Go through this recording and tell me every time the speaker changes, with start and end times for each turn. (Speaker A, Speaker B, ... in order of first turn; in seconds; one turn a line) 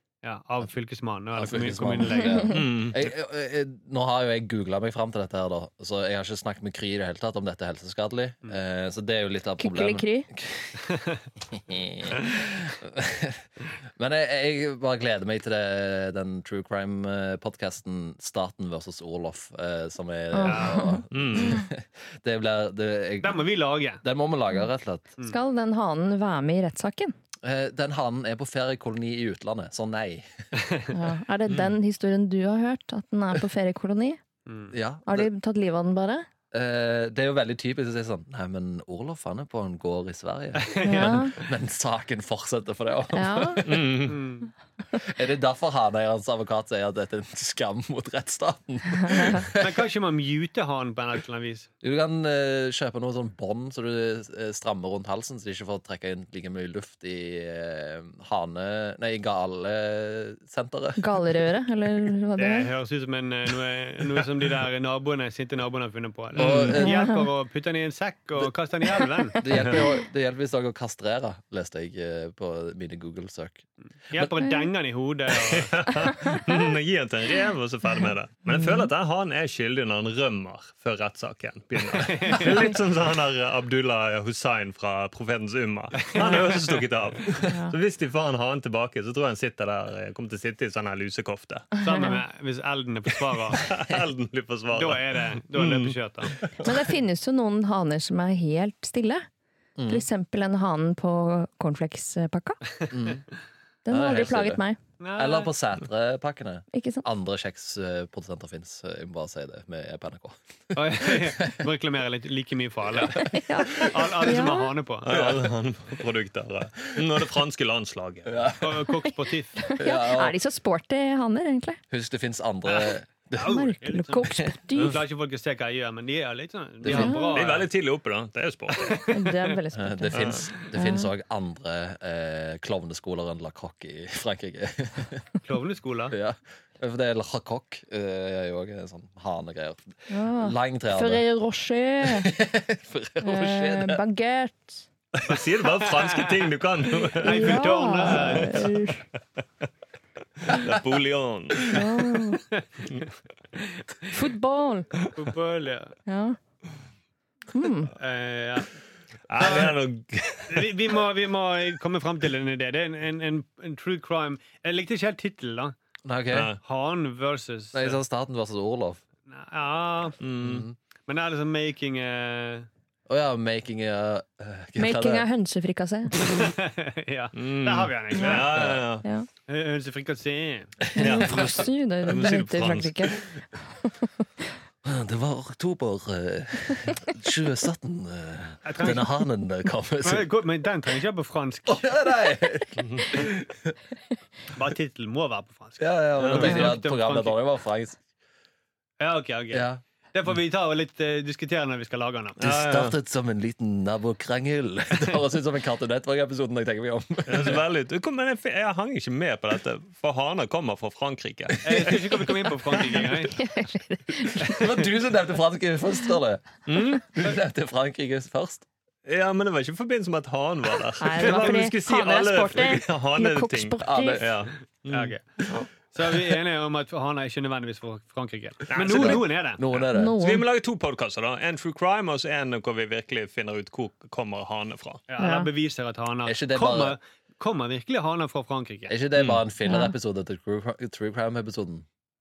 Speaker A: 0.2-2.5
Speaker B: 1.3-10.8
Speaker C: 2.2-2.6
Speaker D: 2.5-3.1
Speaker C: 9.6-10.3
Speaker A: 10.9-11.2
Speaker B: 11.5-23.4
Speaker C: 20.3-21.6
Speaker A: 20.4-20.9
Speaker D: 21.1-21.6
Speaker A: 23.2-24.0
Speaker B: 24.0-25.1
Speaker C: 25.3-27.1
Speaker B: 27.4-30.4
Speaker C: 30.9-34.2
Speaker A: 34.5-34.7
Speaker B: 34.7-35.3
Speaker C: 35.0-36.3
Speaker B: 36.5-43.9
Speaker A: 40.6-41.1
Speaker C: 40.8-41.3
Speaker D: 40.9-41.2
Speaker C: 43.1-43.7
Speaker D: 43.6-44.2
Speaker A: 44.0-44.5
Speaker B: 45.0-49.8
Speaker C: 49.1-49.4
Speaker A: 49.6-51.7
Speaker B: 51.8-61.4
Speaker C: 61.0-62.7
Speaker A: 62.4-69.7
Speaker B: 66.3-67.1
Speaker C: 66.8-67.3
Speaker B: 69.4-73.6
Speaker A: 74.1-75.9
Speaker C: 74.4-74.7
Speaker D: 75.5-91.7
Speaker A: 81.9-82.7
Speaker A: 86.0-86.8
Speaker C: 87.3-87.7
Speaker C: 91.8-92.2
Speaker A: 91.8-93.7
Speaker D: 93.6-96.4
Speaker A: 94.7-96.5
Speaker C: 96.6-99.2
Speaker B: 99.8-100.0
Speaker C: 99.9-102.6
Speaker B: 102.9-103.2
Speaker C: 103.8-104.8
Speaker B: 103.9-104.6
Speaker A: 105.0-105.5
Speaker B: 105.2-111.6
Speaker C: 106.7-107.0
Speaker A: 110.7-115.2
Speaker C: 113.2-114.7
Speaker D: 115.0-118.4
Speaker B: 118.3-118.9
Speaker A: 118.6-119.6
Speaker C: 119.6-121.8
Speaker B: 119.8-120.3
Speaker B: 121.9-123.7
Speaker A: 122.6-127.7
Speaker C: 123.4-125.0
Speaker B: 126.8-127.3
Speaker C: 126.9-127.4
Speaker D: 126.9-129.1
Speaker A: 128.7-129.5
Speaker C: 129.1-131.1
Speaker B: 129.7-135.2
Speaker D: 130.1-130.4
Speaker A: 135.4-136.2
Speaker B: 136.1-141.2
Speaker C: 140.1-142.3
Speaker B: 142.0-144.0
Speaker C: 143.2-144.8
Speaker D: 145.2-148.7
Speaker A: 145.3-148.7
Speaker C: 147.2-149.0
Speaker D: 150.4-151.8
Speaker C: 151.7-152.4
Speaker A: 152.6-153.9
Speaker C: 154.1-155.1
Speaker A: 155.1-155.9
Speaker C: 156.1-156.4
Speaker C: 157.5-157.9
Speaker A: 158.0-158.7
Speaker D: 159.3-160.8
Speaker A: 159.4-159.8
Speaker A: 160.5-165.7
Speaker B: 166.0-166.5
Speaker D: 166.3-166.6
Speaker A: 166.6-168.0
Speaker B: 167.7-169.0
Speaker A: 169.2-170.2
Speaker D: 170.2-170.7
Speaker B: 170.4-170.8
Speaker A: 171.1-172.7
Speaker B: 173.1-175.3
Speaker C: 174.8-176.4
Speaker A: 176.2-178.8
Speaker D: 177.3-179.0
Speaker C: 178.2-179.3
Speaker B: 178.5-178.8
Speaker A: 179.5-180.7
Speaker B: 180.9-181.2
Speaker D: 180.9-183.2
Speaker C: 180.9-184.3
Speaker B: 184.8-190.3
Speaker A: 188.6-189.2
Speaker A: 190.0-191.8
Speaker B: 191.7-193.8
Speaker D: 192.8-193.1
Speaker A: 194.5-197.4
Speaker B: 195.8-198.0
Speaker D: 196.2-196.6
Speaker A: 199.0-202.4
Speaker B: 199.5-199.8
Speaker D: 202.4-202.9
Speaker B: 202.4-207.6
Speaker D: 207.2-211.9
Speaker A: 211.6-213.4
Speaker B: 211.7-211.9
Speaker C: 213.2-214.9
Speaker B: 214.4-218.7
Speaker D: 216.7-217.1
Speaker D: 219.1-225.1
Speaker C: 221.0-224.3
Speaker B: 223.8-224.4
Speaker A: 224.8-229.6
Speaker D: 228.7-235.0
Speaker B: 228.9-230.2
Speaker C: 229.9-230.4
Speaker A: 235.1-238.9
Speaker C: 235.2-235.5
Speaker B: 236.2-237.0
Speaker B: 238.9-241.8
Speaker D: 239.2-239.4
Speaker C: 239.6-239.9